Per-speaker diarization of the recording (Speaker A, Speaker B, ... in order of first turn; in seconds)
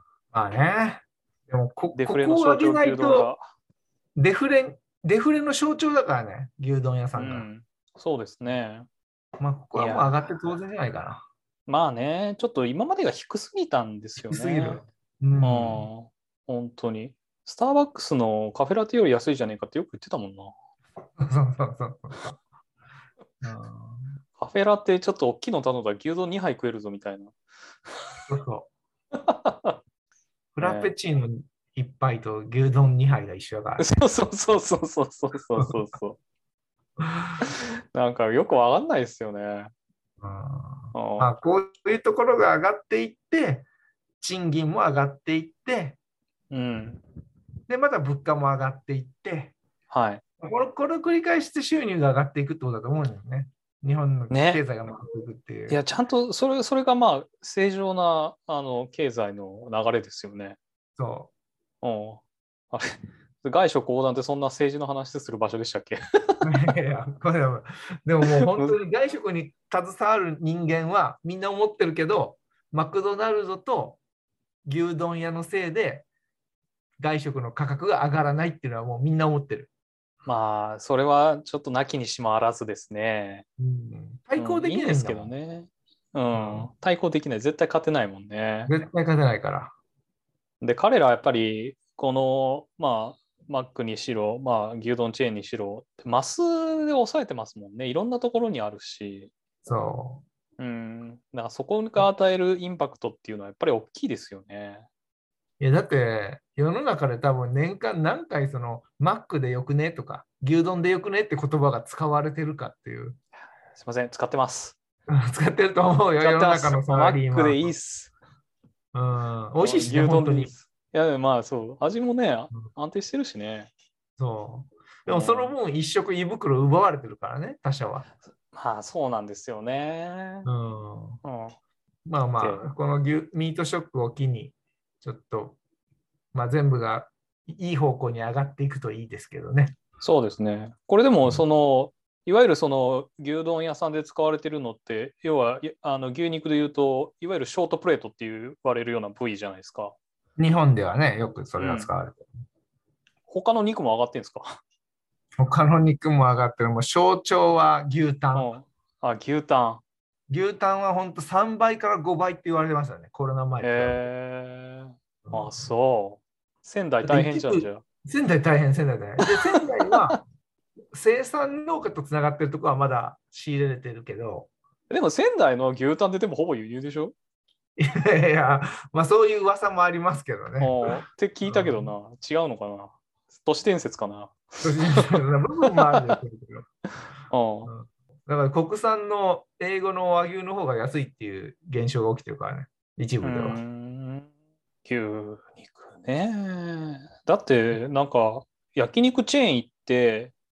Speaker A: 0.3-3.3, 4.2-7.5, 9.4-11.2, 14.2-15.9, 21.2-22.4, 23.4-24.1, 28.3-28.7, 30.5-34.0, 37.0-37.4, 40.2-43.6, 44.2-46.0, 47.7-49.5, 50.4-55.8, 61.0-61.3, 66.4-74.0, 74.7-76.0, 77.0-79.7, 83.6-85.3, 86.3-86.7, 88.7-89.7, 99.6-100.2, 105.6-113.2, 115.1-117.7, 118.9-120.5, 124.2-128.1, 130.4-131.2, 132.1-135.6, 136.3-139.8, 150.4-152.3, 155.4-158.5, 160.3-164.1, 165.2-165.5, 167.0-170.2, 170.9-174.5, 177.8-181.9, 184.6-186.7, 187.7-193.6
Speaker B: 1.9-3.4, 7.2-8.9, 9.7-10.2, 11.7-14.8, 15.4-20.5, 24.4-27.3, 27.9-28.2, 29.1-29.8, 30.6-30.9, 33.8-36.2, 37.4-39.7, 40.9-41.3, 46.5-47.0, 49.9-50.2, 54.3-54.6, 55.7-60.6, 61.8-62.9, 63.4-66.4, 68.4-68.7, 80.2-83.5, 84.3-88.7, 90.6-99.3, 100.6-104.9, 113.7-114.8, 116.2-118.1, 119.6-123.7, 125.1-125.5, 128.5-130.5, 131.2-131.6, 132.4-132.7, 140.0-149.9, 151.6-151.9, 153.3-154.6, 158.3-159.8, 163.6-167.8, 169.5-170.1, 174.9-177.1, 180.6-185.2, 185.9-186.2, 187.3-187.7, 193.2-194.3, 194.8-200.3